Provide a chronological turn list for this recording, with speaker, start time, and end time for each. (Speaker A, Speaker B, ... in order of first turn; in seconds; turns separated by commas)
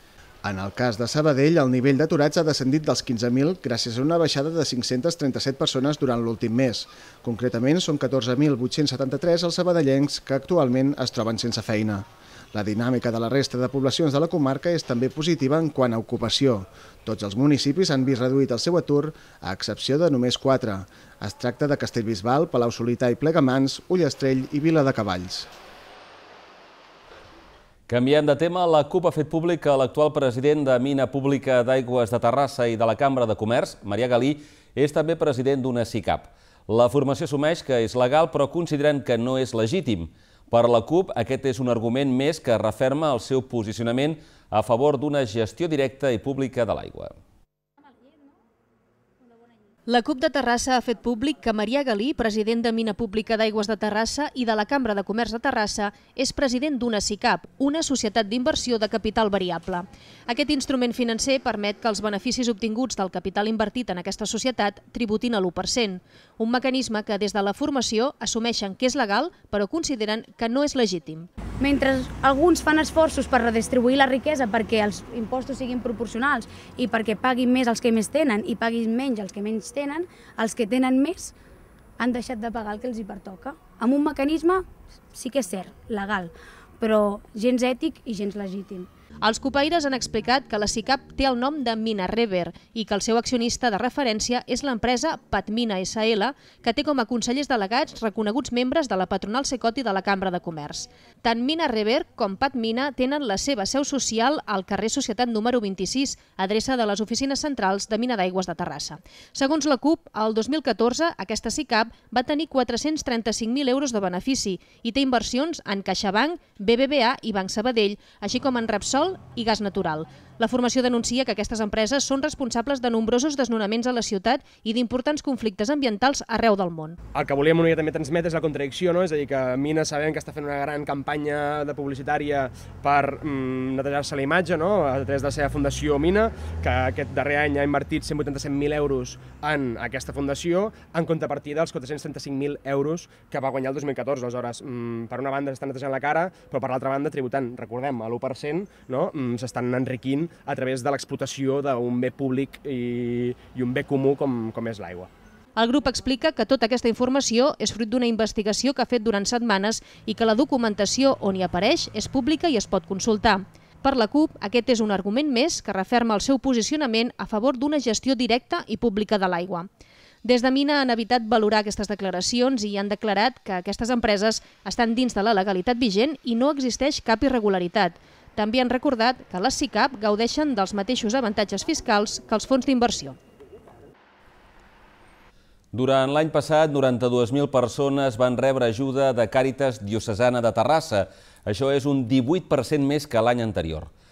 Speaker A: 0.4-25.5, Speaker B: 27.9-47.1, Speaker C: 49.9-71.3, Speaker D: 71.6-81.3, Speaker D: 82.0-88.9, Speaker C: 89.2-127.0, Speaker E: 127.1-155.1, Speaker C: 155.6-169.7, Speaker C: 170.2-183.2, Speaker B: 185.7-193.9